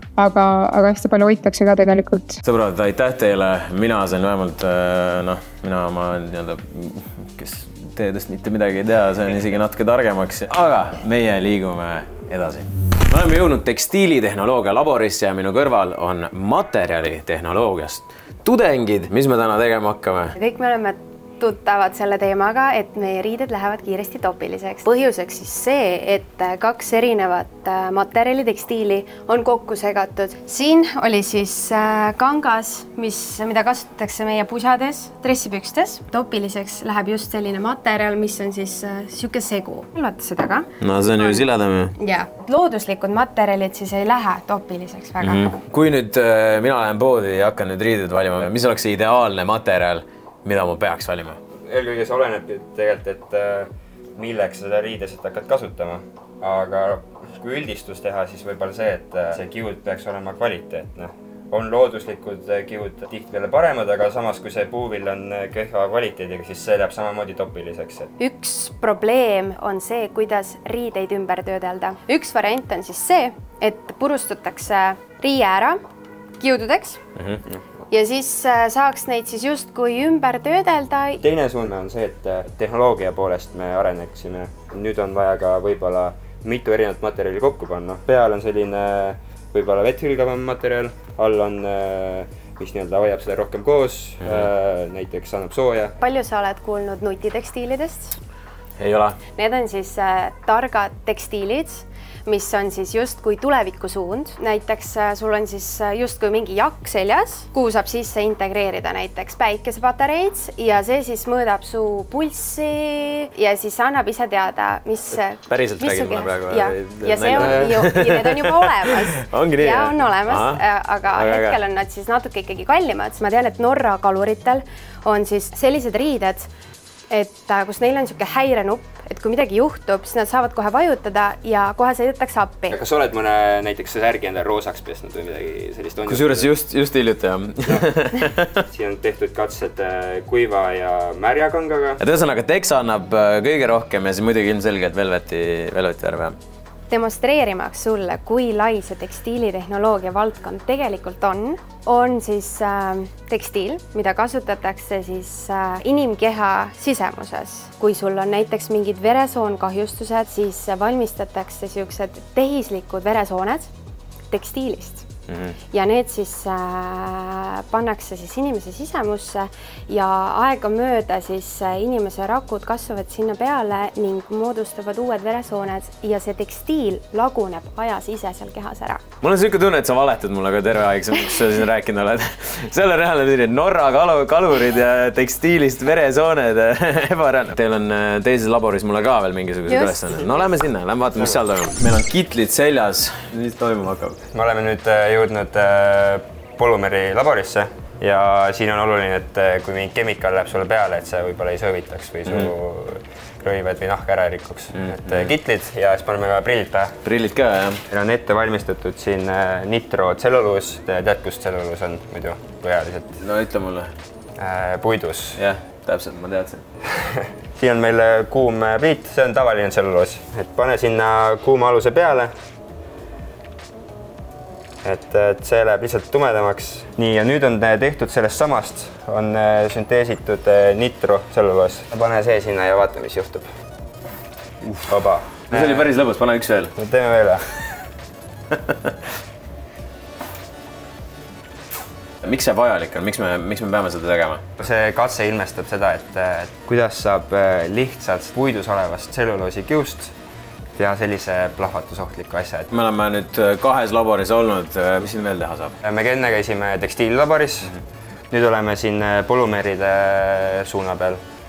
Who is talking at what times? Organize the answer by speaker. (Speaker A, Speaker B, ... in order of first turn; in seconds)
Speaker A: 0.2-2.4
Speaker B: 2.4-20.4, 40.8-41.9, 45.2-51.4, 98.8-99.2, 115.5-121.6, 136.1-138.6, 142.0-146.4, 165.3-165.6, 179.2-194.2, 204.8-205.3, 207.0-207.8, 213.2-213.9, 215.3-216.6, 235.5-236.7, 238.5-238.9, 242.2-244.4, 252.7-255.8
Speaker C: 20.4-41.5, 42.0-45.5, 68.2-75.8, 76.4-77.0, 77.9-81.2, 96.0-98.2, 99.4-126.5, 127.1-132.8, 146.9-163.7, 164.3-165.1, 165.7-179.0, 189.7-190.3
Speaker D: 51.7-68.1, 81.2-96.0, 132.7-136.5, 138.7-142.0, 194.3-206.9, 207.9-213.2, 214.4-215.4, 216.9-222.3, 224.8-233.5, 234.8-235.9, 236.8-237.6, 244.6-250.1, 250.8-252.7, 255.8-257.8, 258.3-261.2